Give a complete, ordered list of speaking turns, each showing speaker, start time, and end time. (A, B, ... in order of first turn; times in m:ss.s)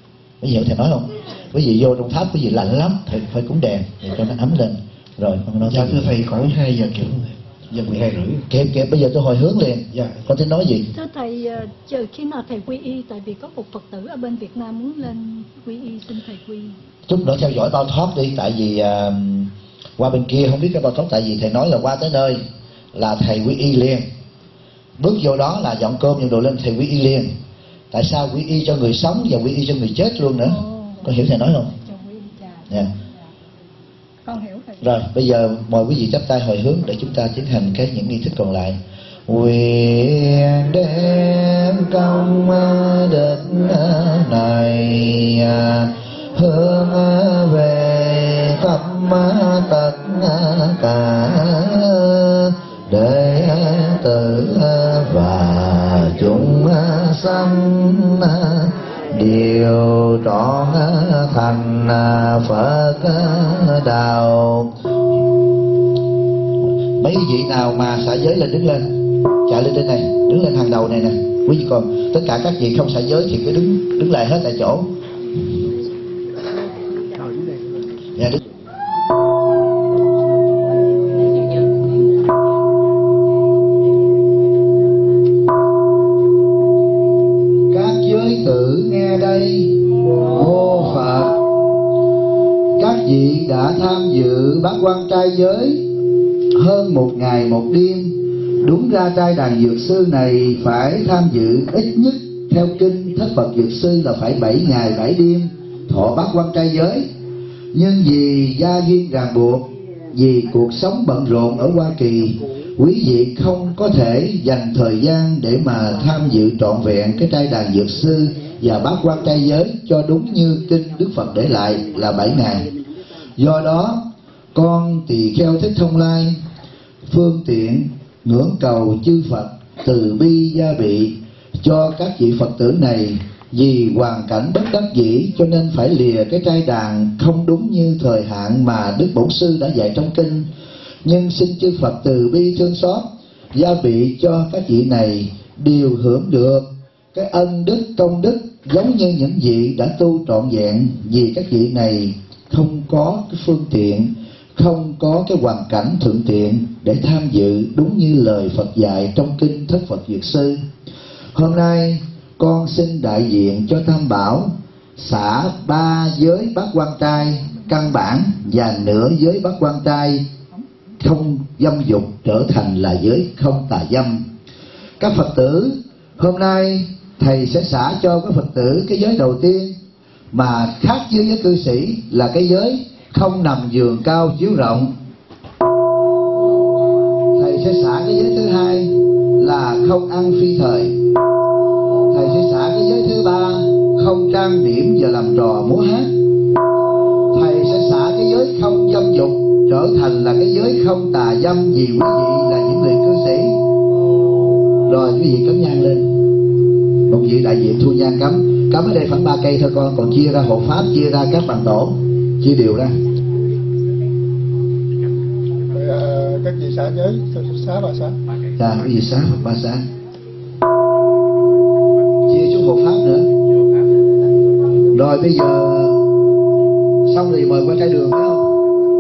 0:00.4-0:06.1 A
0:05.6-0:08.4 B
0:08.5-0:10.9 A
0:09.9-0:10.2 B
0:10.9-0:16.8 C
0:17.1-0:22.4 A
0:22.9-0:24.0 A
0:25.0-0:27.3 A
0:27.9-0:31.7 A
0:30.5-0:31.0 C
0:31.7-0:32.7 C
0:34.2-0:34.8 C
0:34.8-1:04.7 A
1:07.0-1:14.9 A
1:17.2-1:17.6 B
1:27.7-1:31.4 A
1:32.8-1:35.8 A
1:36.5-1:47.1 A
1:47.7-2:02.7 A
2:03.4-2:06.4 A
2:07.0-2:20.5 A
2:21.0-2:40.6 A
2:41.3-2:50.2 A
2:51.0-2:54.3 A
2:55.0-2:59.7 A
3:00.3-3:04.9 A
3:07.3-3:11.0 A
3:12.1-3:16.1 A
3:17.3-3:23.6 A
3:24.9-3:26.1 A
3:27.1-3:32.9 A
3:35.7-3:38.2 D
3:38.6-3:39.8 A
3:42.3-3:43.3 A
3:44.9-3:46.0 A
3:47.0-3:48.5 A